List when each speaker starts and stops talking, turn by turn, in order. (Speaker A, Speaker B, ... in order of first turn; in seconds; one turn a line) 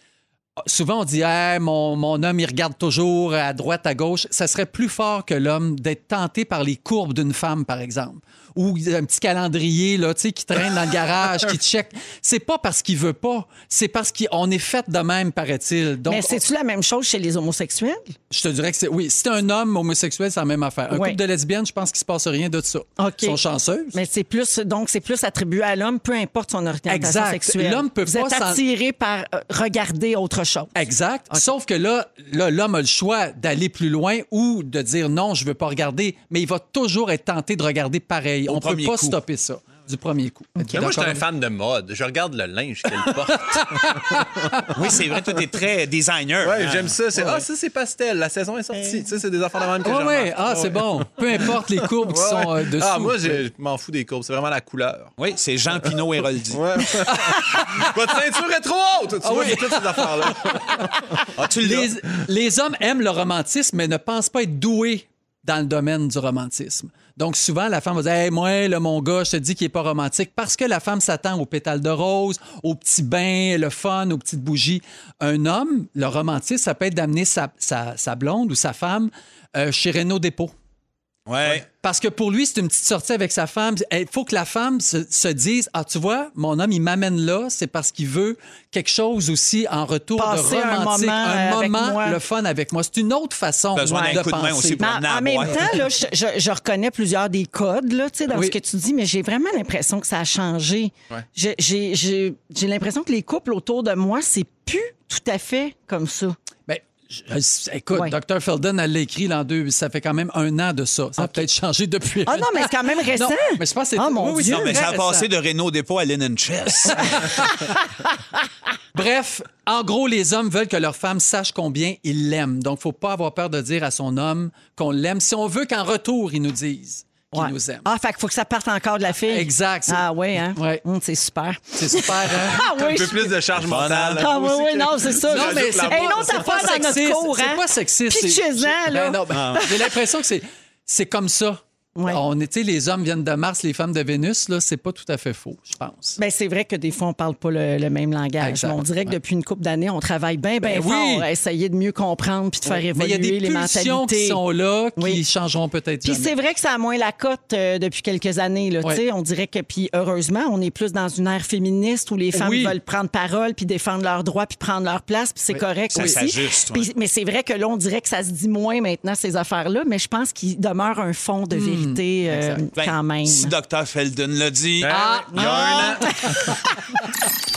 Speaker A: 0.6-16.4
Speaker B: 16.1-18.1
Speaker A: 18.3-24.0
Speaker B: 20.9-21.2
Speaker B: 23.0-23.4
Speaker B: 23.9-31.5
Speaker A: 26.9-28.6
Speaker A: 30.8-41.2
Speaker C: 38.5-39.2
Speaker D: 40.7-44.7
Speaker A: 43.1-44.9
Speaker C: 44.7-47.0
Speaker D: 46.4-55.1
Speaker A: 49.8-53.4
Speaker C: 55.2-56.9
Speaker D: 56.5-61.4
Speaker A: 57.1-57.9
Speaker A: 59.2-60.9
Speaker C: 61.4-61.9
Speaker A: 61.6-80.5
Speaker C: 81.3-81.6
Speaker A: 81.4-94.8
Speaker B: 90.2-92.2
Speaker C: 93.8-95.8
Speaker B: 93.9-106.4
Speaker A: 98.3-98.5
Speaker A: 106.7-115.3
Speaker B: 111.2-111.4
Speaker B: 112.3-114.8
Speaker C: 114.5-117.4
Speaker A: 116.9-117.7
Speaker A: 118.9-127.9
Speaker B: 127.3-133.4
Speaker A: 129.3-130.8
Speaker A: 131.8-132.7
Speaker D: 132.7-136.8
Speaker C: 133.6-134.3
Speaker B: 134.2-139.9
Speaker A: 135.2-146.2
Speaker C: 139.3-139.6
Speaker B: 142.0-142.2
Speaker B: 146.2-154.4
Speaker A: 148.4-149.1
Speaker A: 150.6-151.3
Speaker A: 152.7-156.3
Speaker B: 155.0-155.2
Speaker B: 156.0-173.5
Speaker A: 162.3-162.8
Speaker A: 165.5-166.2
Speaker C: 165.9-166.9
Speaker A: 171.5-172.6
Speaker C: 172.8-175.9
Speaker D: 174.8-176.1
Speaker A: 174.9-176.2
Speaker B: 175.3-176.6